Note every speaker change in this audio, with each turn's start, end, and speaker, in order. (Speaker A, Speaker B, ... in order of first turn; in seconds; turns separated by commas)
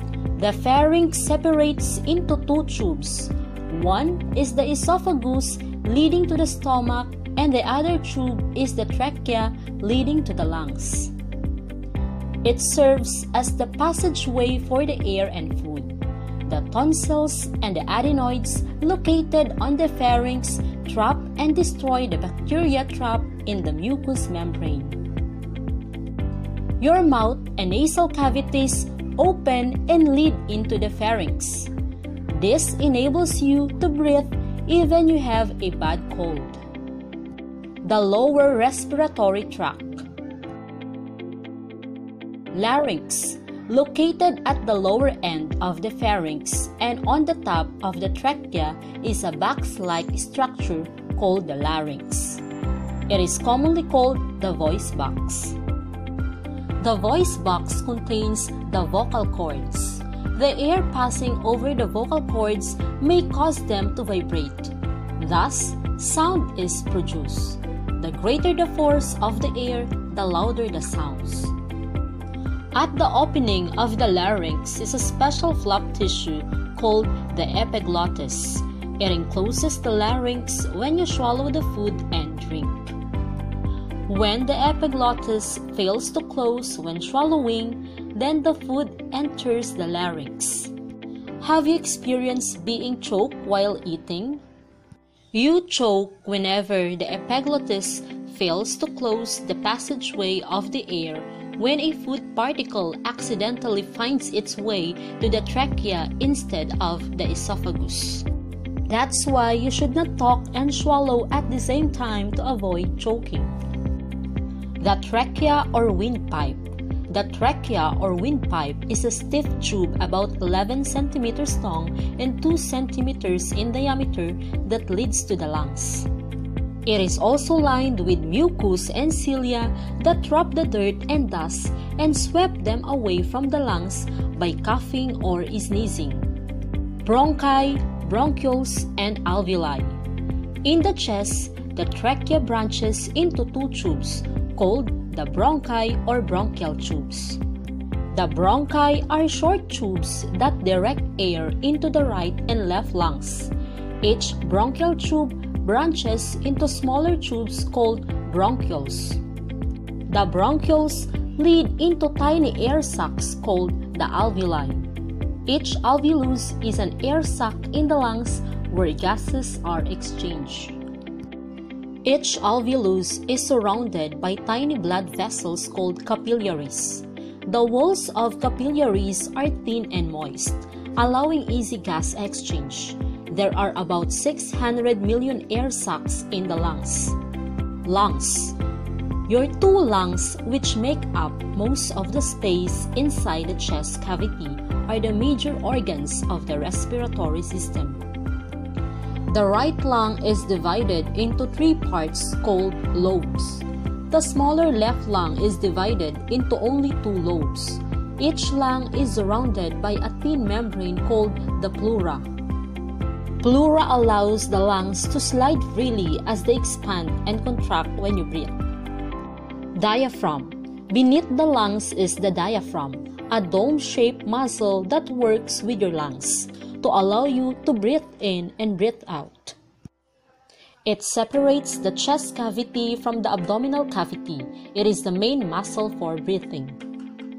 Speaker A: 0.4-11.1, Speaker A: 12.4-25.0, Speaker A: 26.8-31.7, Speaker A: 32.3-36.6, Speaker A: 37.8-40.0, Speaker A: 42.5-52.4, Speaker A: 53.1-55.6, Speaker A: 56.8-71.5, Speaker A: 72.7-82.9, Speaker A: 84.1-90.7, Speaker A: 91.4-94.4, Speaker A: 95.3-108.2, Speaker A: 108.9-113.5, Speaker A: 114.8-126.1, Speaker A: 126.8-136.3, Speaker A: 137.0-140.0, Speaker A: 140.6-147.4, Speaker A: 148.1-159.2, Speaker A: 160.1-164.9, Speaker A: 165.4-170.8, Speaker A: 172.0-187.2, Speaker A: 187.8-188.6, Speaker A: 189.3-198.0, Speaker A: 199.3-212.2, Speaker A: 213.4-218.6, Speaker A: 219.7-229.6, Speaker A: 230.8-236.8